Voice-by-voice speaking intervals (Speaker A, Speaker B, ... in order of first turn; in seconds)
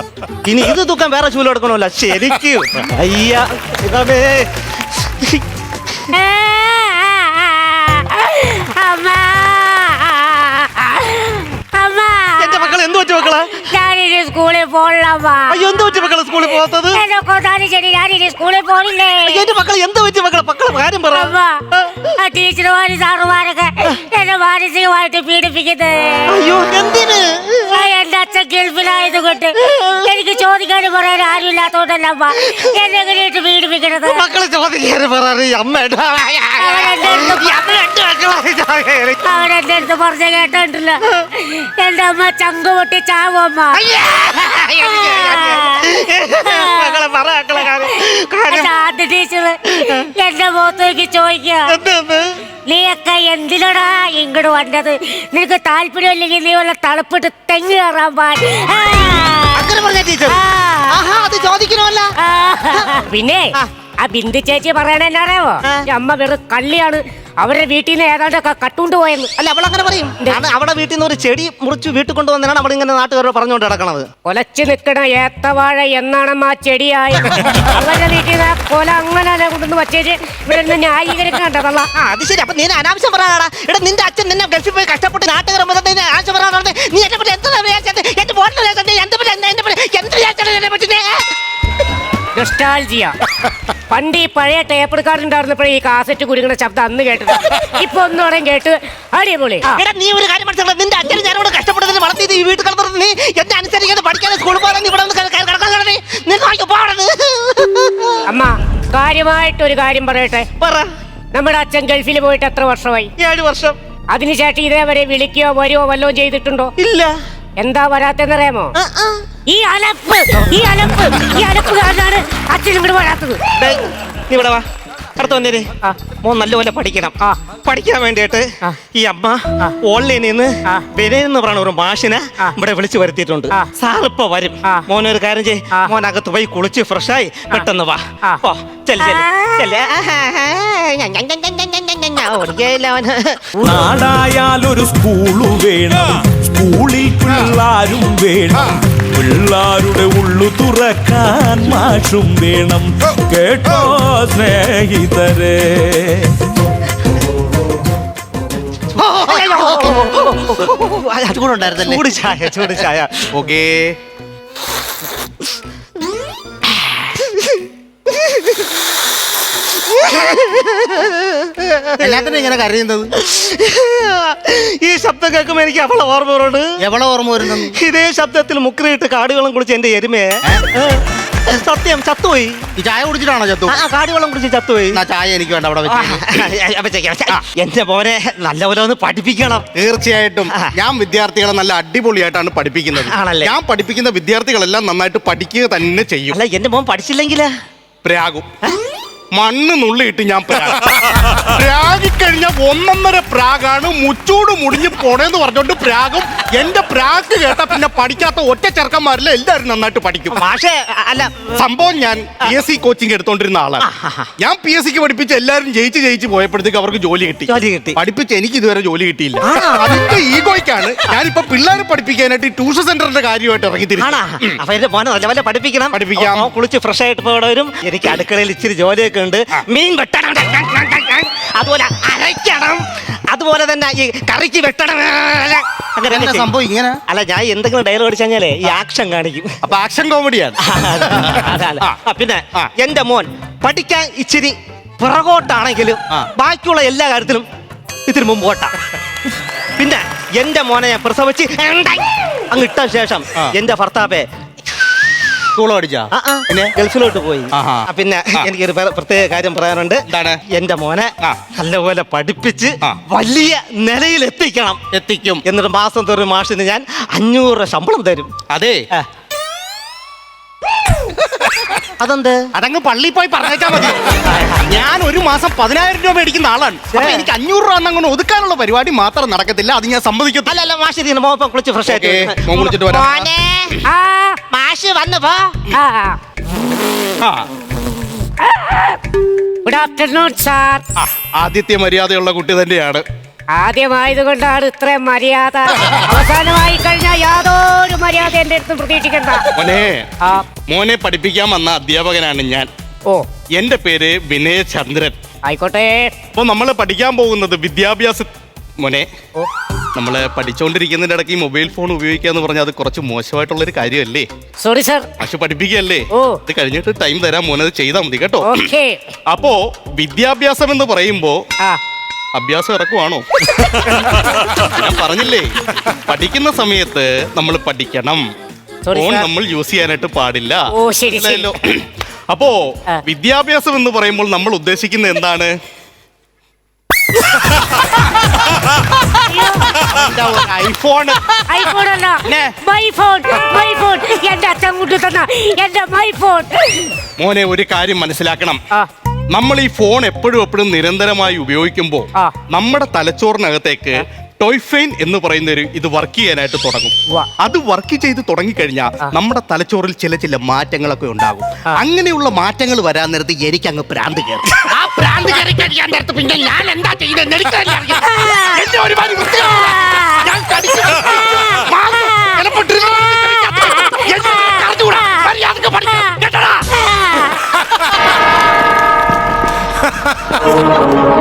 Speaker A: 0.4-6.1, 12.4-13.6, 15.5-17.0, 19.3-22.1, 26.3-27.8, 29.6-30.1, 34.0-39.3, 43.7-48.7, 51.7-52.3, 59.5-62.1, 69.4-74.1, 82.0-91.2, 99.7-108.2, 110.6-110.9, 113.2-113.8, 116.8-117.1, 118.8-119.2, 123.5-124.6, 125.2-143.5, 158.9-163.3, 166.7-168.7, 169.7-172.5, 173.2-176.7, 177.4-182.7, 183.7-185.0, 185.9-189.7, 192.9-193.5, 196.3-197.5, 210.3-211.6, 213.8-214.3, 217.5-218.0, 219.4-220.3, 224.0-236.5, 237.1-239.5, 240.6-247.4, 248.1-248.7, 249.8-254.3, 256.1-264.8, 265.4-268.3, 272.0-272.5, 276.9-277.3, 280.5-283.8, 284.5-285.6
Speaker B: 6.1-12.9, 13.5-19.4, 21.1-21.5, 22.1-26.4, 27.7-34.2, 36.6-37.7, 39.2-43.8, 44.8-45.9, 46.4-47.0, 47.5-47.9, 48.5-51.7, 52.7-59.7, 60.3-61.0, 62.2-69.3, 74.2-81.9, 92.3-93.2, 93.9-99.8, 108.2-110.5, 111.3-113.1, 114.1-116.7, 117.6-118.7, 119.5-123.4, 139.0-139.6, 283.9-284.4, 285.7-286.2, 288.4-289.0, 289.6-290.8, 293.6-299.5, 305.4-306.1, 314.6-315.2, 316.1-316.4, 318.4-319.0, 328.8-329.3, 330.7-331.5, 339.1-339.8, 341.5-346.9, 368.0-368.6, 369.5-370.3, 371.1-372.4, 373.4-375.3, 376.8-377.4
Speaker C: 143.6-156.3
Speaker D: 159.2-159.7, 161.6-162.1, 163.3-164.0, 172.0-173.1, 176.8-177.8, 182.8-183.8, 184.9-186.5, 189.7-196.4, 198.0-198.5, 199.3-210.4, 211.5-224.6, 225.9-226.5, 236.1-237.0, 239.6-242.0, 255.5-256.7, 257.5-258.5, 260.1-260.4, 261.2-261.4, 264.9-265.4, 268.5-268.9, 272.5-280.5, 281.8-283.3, 287.2-287.5, 290.9-293.0, 299.6-300.1, 300.7-302.7, 303.6-305.2, 306.3-309.1, 309.9-314.3, 315.2-318.7, 319.3-321.4, 322.3-328.2, 328.9-330.6, 331.1-335.5, 339.7-341.6, 342.2-342.5, 347.2-348.6, 349.3-376.7